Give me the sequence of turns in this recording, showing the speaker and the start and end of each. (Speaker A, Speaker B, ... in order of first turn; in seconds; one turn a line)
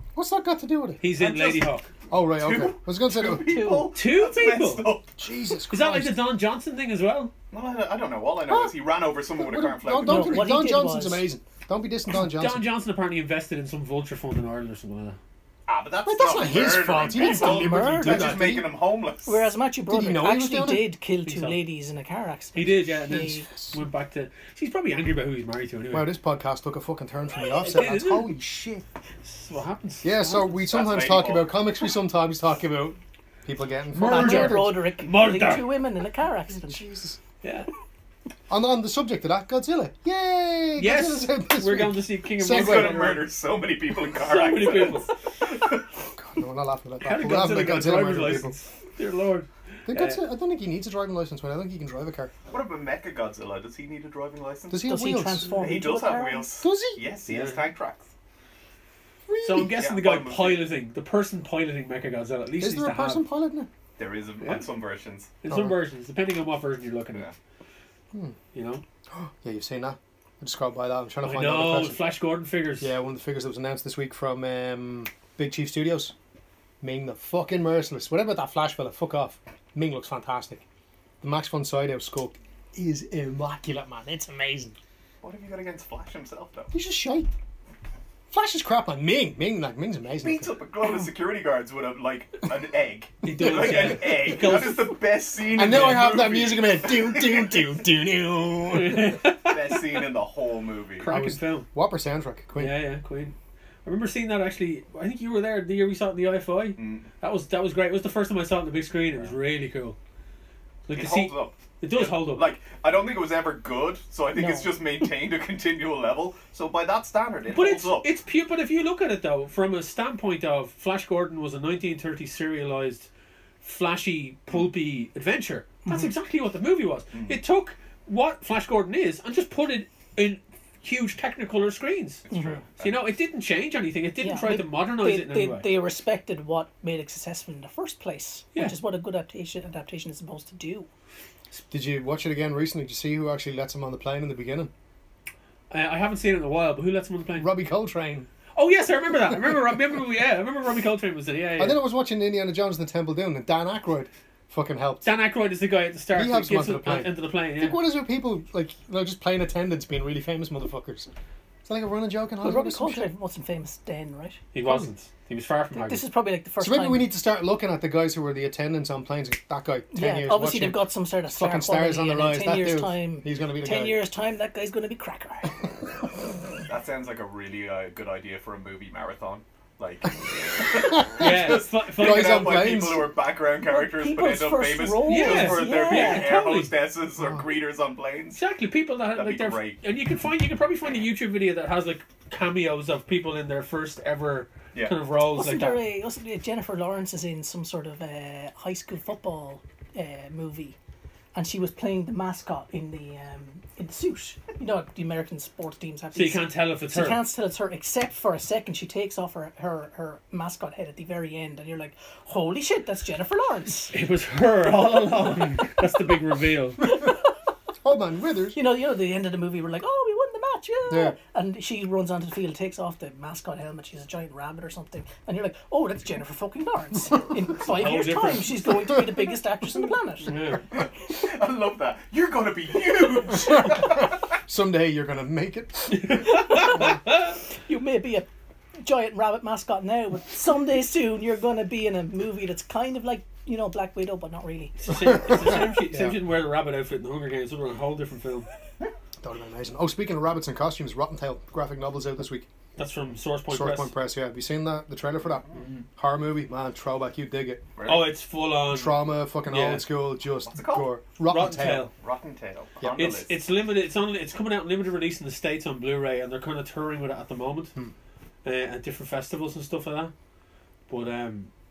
Speaker A: 0.1-1.0
Speaker B: 1.0-1.9
Speaker C: 1.2-1.6
Speaker A: 2.1-3.8
Speaker D: 2.4-5.1
Speaker C: 3.4-3.9
Speaker B: 3.9-4.9
Speaker A: 5.2-6.2
Speaker B: 5.7-7.3
Speaker D: 7.5-10.5
Speaker A: 8.5-8.7
Speaker A: 9.4-12.6
Speaker C: 10.0-11.3
Speaker B: 12.1-15.2
Speaker D: 15.7-19.5
Speaker A: 16.1-18.7
Speaker C: 17.2-18.4
Speaker C: 19.2-23.5
Speaker A: 19.9-20.9
Speaker B: 21.3-21.6
Speaker B: 22.5-26.1
Speaker A: 23.1-23.8
Speaker A: 25.9-28.9
Speaker B: 27.4-28.4
Speaker B: 29.2-30.5
Speaker A: 30.0-34.8
Speaker D: 30.7-31.5
Speaker B: 34.0-35.8
Speaker C: 34.0-36.9
Speaker A: 36.5-37.2
Speaker B: 37.4-37.7
Speaker A: 38.5-43.2
Speaker B: 40.8-43.3
Speaker D: 42.5-45.8
Speaker B: 44.1-45.1
Speaker A: 46.1-48.6
Speaker B: 47.0-50.2
Speaker A: 49.9-52.3
Speaker D: 52.5-54.8
Speaker A: 54.7-55.5
Speaker C: 54.9-56.5
Speaker D: 55.5-58.1
Speaker A: 56.6-57.0
Speaker B: 57.3-57.7
Speaker A: 59.3-59.8
Speaker B: 59.4-63.2
Speaker D: 59.7-60.7
Speaker A: 62.6-63.7
Speaker D: 64.0-65.3
Speaker B: 64.4-64.7
Speaker B: 65.4-67.3
Speaker A: 65.5-65.8
Speaker B: 68.5-68.8
Speaker A: 69.1-72.0
Speaker B: 71.2-72.9
Speaker A: 72.8-76.1
Speaker A: 76.8-80.6
Speaker A: 81.2-84.8
Speaker D: 85.2-86.7
Speaker A: 86.7-87.3
Speaker A: 88.3-90.5
Speaker D: 90.2-97.7
Speaker B: 93.2-95.0
Speaker A: 93.3-94.2
Speaker A: 95.5-99.3
Speaker B: 95.6-96.1
Speaker B: 98.7-100.0
Speaker D: 99.4-101.1
Speaker B: 101.0-101.7
Speaker A: 101.0-102.8
Speaker B: 102.6-110.0
Speaker D: 106.8-107.1
Speaker B: 110.9-112.5
Speaker D: 110.9-118.1
Speaker C: 114.4-114.7
Speaker B: 117.5-123.1
Speaker B: 123.6-135.7
Speaker D: 127.1-127.4
Speaker D: 132.3-133.0
Speaker C: 134.2-140.9
Speaker A: 141.7-144.7
Speaker B: 145.7-147.5
Speaker A: 147.4-148.3
Speaker B: 148.6-151.8
Speaker A: 151.6-155.1
Speaker B: 155.0-157.8
Speaker A: 156.1-161.1
Speaker A: 161.7-163.1
Speaker C: 162.4-164.8
Speaker B: 164.5-166.1
Speaker C: 165.8-167.1
Speaker A: 166.6-174.0
Speaker C: 169.9-175.6
Speaker D: 176.7-188.4
Speaker A: 180.7-183.1
Speaker B: 181.2-182.9
Speaker C: 183.7-186.4
Speaker B: 185.1-186.8
Speaker A: 187.2-187.5
Speaker B: 188.3-195.8
Speaker D: 189.1-189.8
Speaker C: 195.3-200.8
Speaker C: 201.3-213.9
Speaker B: 206.1-207.2
Speaker B: 213.9-216.8
Speaker A: 217.8-218.6
Speaker C: 218.5-230.5
Speaker A: 220.9-221.2
Speaker B: 227.6-228.7
Speaker B: 230.3-230.6
Speaker D: 231.1-234.1
Speaker A: 233.5-236.5
Speaker B: 235.9-237.3
Speaker C: 236.3-237.0
Speaker C: 237.7-238.3
Speaker C: 238.8-245.1
Speaker B: 244.8-248.5
Speaker A: 244.9-246.2
Speaker A: 249.2-252.5
Speaker B: 252.8-253.9
Speaker A: 253.5-257.7
Speaker B: 255.6-255.8
Speaker D: 257.8-258.1
Speaker B: 257.9-259.9
Speaker A: 258.7-261.9
Speaker D: 260.5-260.9
Speaker B: 261.3-261.9
Speaker D: 261.5-263.3
Speaker B: 262.9-267.7
Speaker B: 268.4-270.1
Speaker B: 270.9-271.5